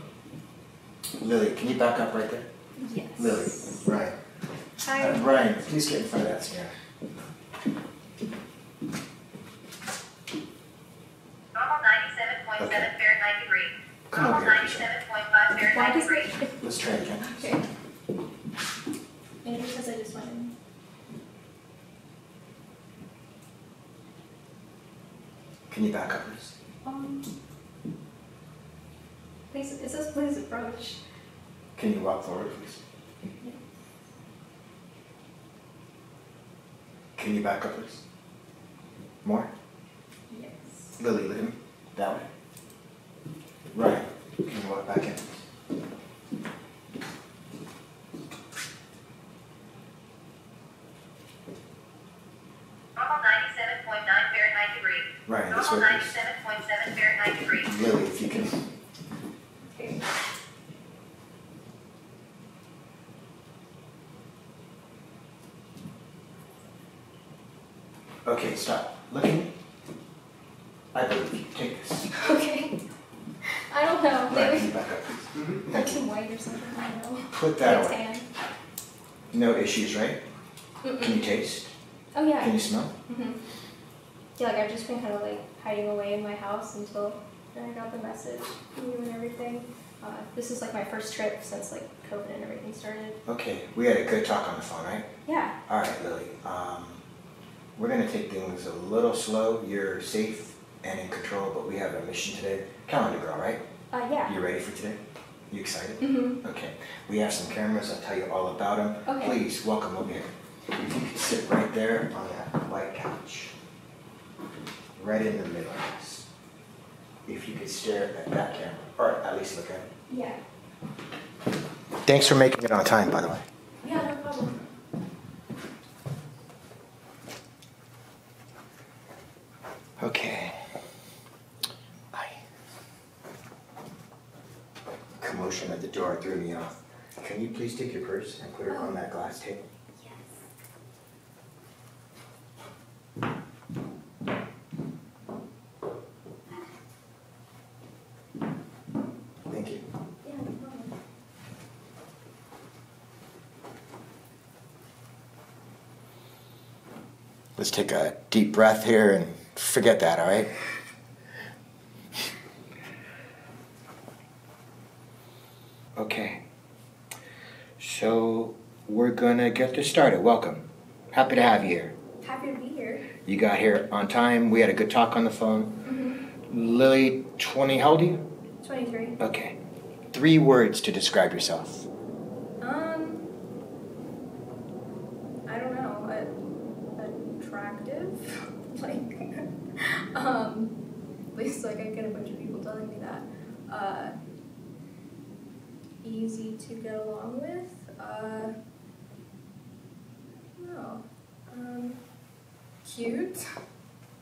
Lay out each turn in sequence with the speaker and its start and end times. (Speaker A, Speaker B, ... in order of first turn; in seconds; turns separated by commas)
Speaker A: 1.2-2.5, Speaker B: 2.8-3.9, Speaker A: 3.2-4.2, Speaker B: 4.8-5.2, Speaker A: 4.9-6.7, Speaker C: 11.5-13.7, Speaker A: 12.6-12.9, Speaker A: 14.1-15.0, Speaker C: 14.2-16.1, Speaker B: 15.5-17.6, Speaker A: 16.6-17.5, Speaker B: 19.4-20.5, Speaker A: 25.7-26.6, Speaker B: 26.8-27.2, Speaker B: 29.5-31.0, Speaker A: 31.8-32.8, Speaker A: 37.1-38.0, Speaker A: 39.2-39.5, Speaker B: 40.3-41.0, Speaker A: 41.0-42.3, Speaker A: 43.7-45.4, Speaker C: 53.0-55.1, Speaker A: 55.2-56.2, Speaker C: 55.6-57.6, Speaker A: 57.5-58.6, Speaker B: 59.6-60.0, Speaker A: 68.2-69.5, Speaker A: 70.9-72.1, Speaker B: 72.1-72.8, Speaker B: 73.4-74.7, Speaker A: 74.3-76.0, Speaker B: 75.6-78.3, Speaker A: 77.3-78.0, Speaker A: 79.3-80.2, Speaker B: 80.8-81.2, Speaker A: 81.0-81.7, Speaker B: 82.1-83.4, Speaker A: 82.4-82.9, Speaker B: 84.4-93.2, Speaker A: 93.2-95.1, Speaker B: 95.2-95.6, Speaker A: 95.7-97.0, Speaker A: 97.8-103.6, Speaker B: 103.9-104.3, Speaker A: 104.2-113.5, Speaker B: 106.0-106.4, Speaker B: 109.0-109.4, Speaker A: 115.0-116.3, Speaker A: 117.2-119.9, Speaker B: 120.1-120.4, Speaker A: 122.0-123.4, Speaker B: 123.8-124.7, Speaker A: 130.0-130.7, Speaker A: 132.1-132.4, Speaker A: 135.2-139.6, Speaker B: 138.7-139.0, Speaker B: 140.0-140.4, Speaker A: 149.5-149.8, Speaker B: 150.2-150.9, Speaker A: 157.6-160.5, Speaker A: 165.9-166.4, Speaker A: 167.8-171.9, Speaker B: 172.2-173.1, Speaker A: 173.2-175.8, Speaker B: 175.8-176.2, Speaker A: 176.5-178.2, Speaker B: 178.6-179.2, Speaker A: 179.2-179.6, Speaker A: 180.1-181.9, Speaker B: 182.6-183.2, Speaker B: 185.5-186.3, Speaker B: 186.9-190.8, Speaker B: 191.3-194.1, Speaker B: 196.0-198.5, Speaker B: 200.5-202.0, Speaker B: 202.8-203.4